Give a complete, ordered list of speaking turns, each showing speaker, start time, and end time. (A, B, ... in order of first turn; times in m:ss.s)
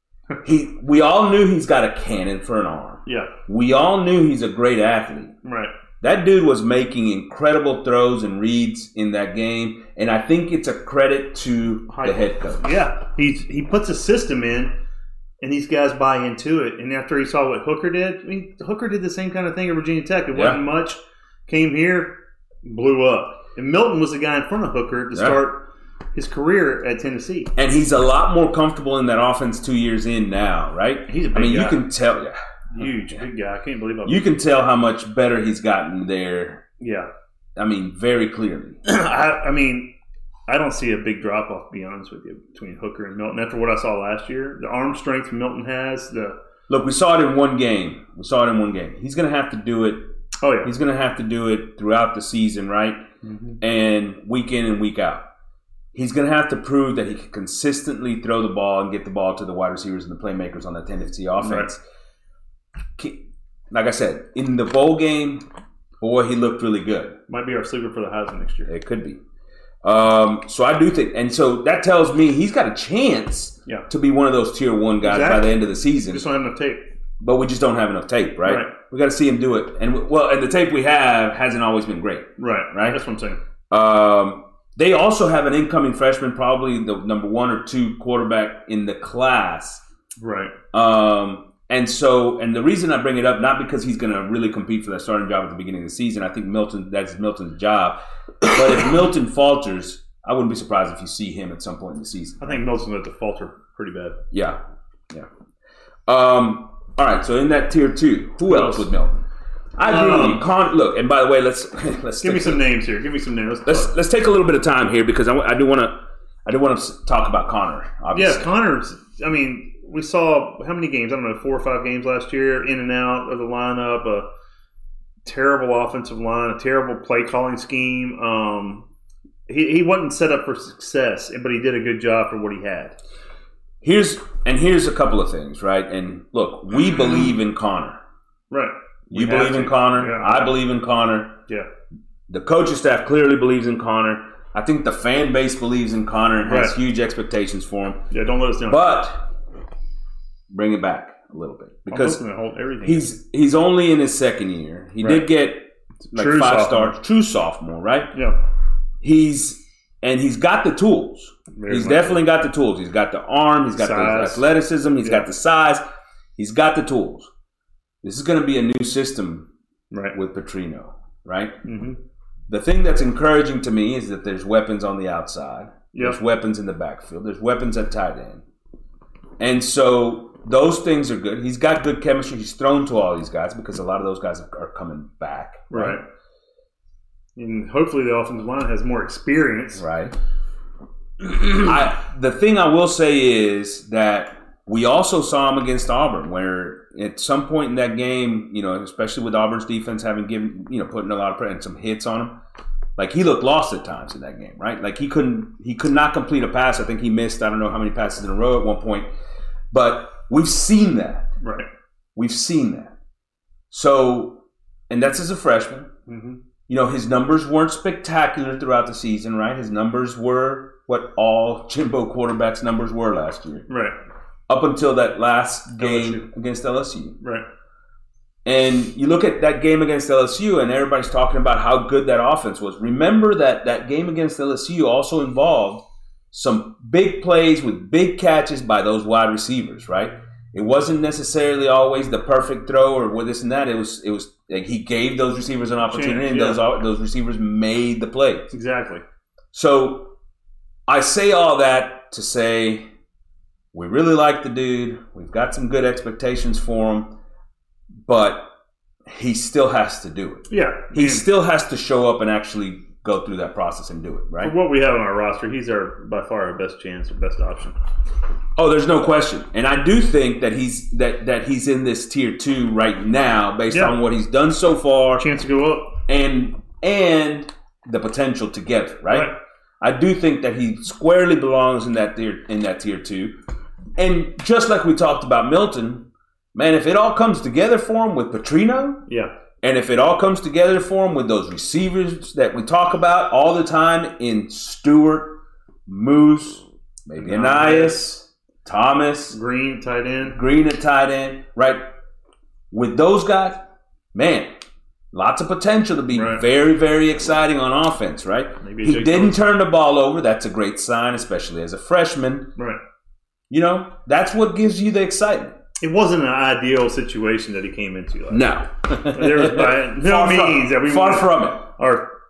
0:00.4-0:05.4 A
0:03.1-0:03.3 B
0:05.4-0:05.7 B
0:06.0-0:12.6 A
0:11.9-0:14.8 B
0:15.4-0:27.5 B
0:20.3-0:20.6 A
0:25.1-0:25.4 A
0:27.6-0:33.2 A
0:31.1-0:31.8 B
0:32.7-0:34.3 B
0:34.1-0:36.6 A
0:36.8-0:37.1 B
0:37.6-0:38.8 A
0:38.8-0:39.9 B
0:40.5-0:46.4 B
0:46.7-0:53.0 A
0:50.4-0:50.7 B
0:53.2-0:53.6 B
0:53.6-0:55.2 A
0:55.9-1:01.8 A
1:01.4-1:01.7 B
1:03.0-1:05.4 A
1:06.0-1:07.2 A
1:07.3-1:08.7 B
1:08.7-1:09.2 A
1:09.8-1:16.2 A
1:15.0-1:16.8 B
1:17.2-1:23.0 A
1:18.4-1:18.7 B
1:22.4-1:23.4 B
1:23.7-1:29.8 A
1:30.2-1:30.5 B
1:30.7-1:42.6 A
1:42.4-1:44.2 B
1:44.3-1:44.6 A
1:46.1-1:49.2 A
1:48.5-1:48.9 B
1:49.8-1:52.6 A
1:49.8-1:50.4 B
1:52.2-1:53.9 B
1:53.7-1:58.5 A
1:58.1-2:04.3 B
2:05.2-2:08.9 B
2:09.5-2:13.0 B
2:13.8-2:18.0 A
2:18.5-2:20.5 B
2:19.1-2:21.4 A
2:22.3-2:28.0 A
2:26.5-2:26.8 B
2:28.1-2:29.0 B
2:28.7-2:29.3 A
2:30.5-2:32.2 A
2:31.9-2:33.1 B
2:32.8-2:38.2 A
2:35.0-2:35.3 B
2:36.1-2:37.0 B
2:39.0-2:45.8 A
2:41.6-2:42.2 B
2:43.8-2:44.5 B
2:46.4-2:47.3 A
2:48.0-2:49.5 A
2:50.1-2:51.6 A
2:51.6-2:52.0 B
2:52.5-2:58.4 A
2:59.4-3:06.0 A
3:05.7-3:06.0 B
3:07.4-3:09.8 B
3:09.8-3:10.2 A
3:11.5-3:22.4 A
3:23.0-3:29.1 A
3:29.7-3:31.3 A
3:31.4-3:31.7 B
3:32.2-3:32.9 A
3:33.7-3:35.9 A
3:36.1-3:36.4 B
3:36.7-3:43.7 A
3:43.7-3:44.0 B
3:44.5-3:47.2 A
3:45.8-3:46.3 B
3:48.4-4:08.5 A
4:05.9-4:06.6 B
4:08.5-4:09.0 B
4:09.5-4:10.1 A
4:10.9-4:12.9 A
4:13.7-4:17.1 A
4:18.1-4:18.5 A
4:19.1-4:24.5 A
4:20.5-4:21.3 B
4:24.4-4:27.8 B
4:28.6-4:35.3 A
4:33.7-4:34.0 B
4:35.2-4:36.0 B
4:36.1-4:43.3 A
4:39.1-4:39.4 B
4:44.0-4:49.0 A
4:49.6-4:59.4 A
4:57.2-4:58.0 B
4:59.3-5:00.4 B
5:00.3-5:01.8 A
5:02.7-5:04.5 A
5:05.1-5:12.5 A
5:06.1-5:06.4 B
5:08.6-5:09.4 B
5:13.5-5:15.6 A
5:15.8-5:18.5 B
5:18.3-5:21.7 A
5:19.1-5:22.1 B